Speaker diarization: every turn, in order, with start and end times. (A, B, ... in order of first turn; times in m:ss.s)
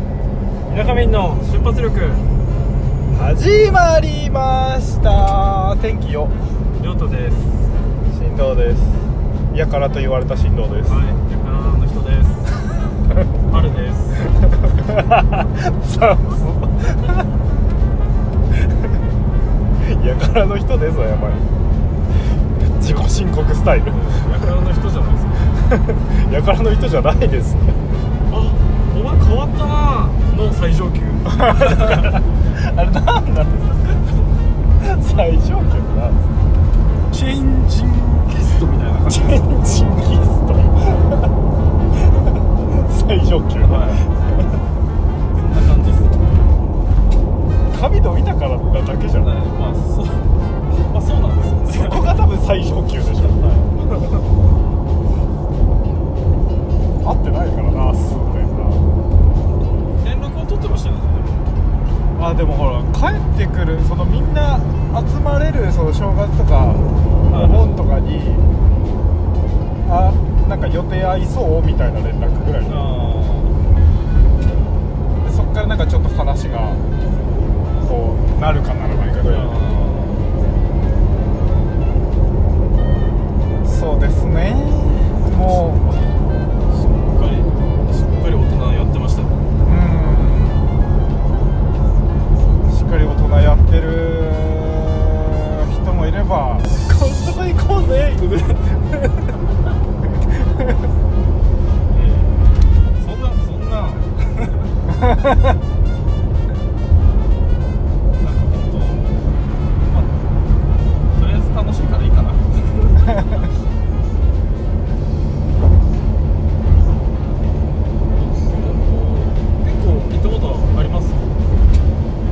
0:00.7-0:02.2 A
0:03.1-0:06.3 B
0:06.8-0:07.7 A
0:08.1-0:11.0 B
0:10.9-0:12.5 A
0:13.5-0:14.3 A
0:14.4-0:17.2 B
0:18.6-0:19.0 B
0:19.8-0:21.4 B
0:22.6-0:24.4 B
0:23.9-0:25.5 A
0:25.4-0:27.8 B
0:28.3-0:32.2 A
0:31.3-0:34.1 B
0:34.8-0:36.2 B
0:37.1-0:39.5 A
0:39.0-0:41.3 B
0:42.0-0:44.6 B
0:43.6-0:44.0 A
0:45.3-0:46.4 A
0:47.7-0:49.4 B
0:49.2-0:52.2 A
0:51.7-0:54.2 B
0:53.4-0:53.6 A
0:57.0-0:58.9 B
1:00.0-1:01.6 A
1:02.1-1:08.5 B
1:07.3-1:07.8 A
1:09.8-1:12.8 B
1:12.6-1:13.5 A
1:15.2-1:16.8 B
1:17.8-1:19.5 B
1:19.2-1:20.3 A
1:23.6-1:26.1 B
1:25.3-1:26.1 A
1:26.7-1:29.4 A
1:29.6-1:30.7 B
1:32.7-1:39.4 B
1:40.0-1:40.9 B
1:41.9-1:42.4 A
1:43.0-1:44.7 A
1:45.0-1:45.5 B
1:48.2-1:50.1 A
1:51.1-1:53.4 A
1:58.1-2:01.4 A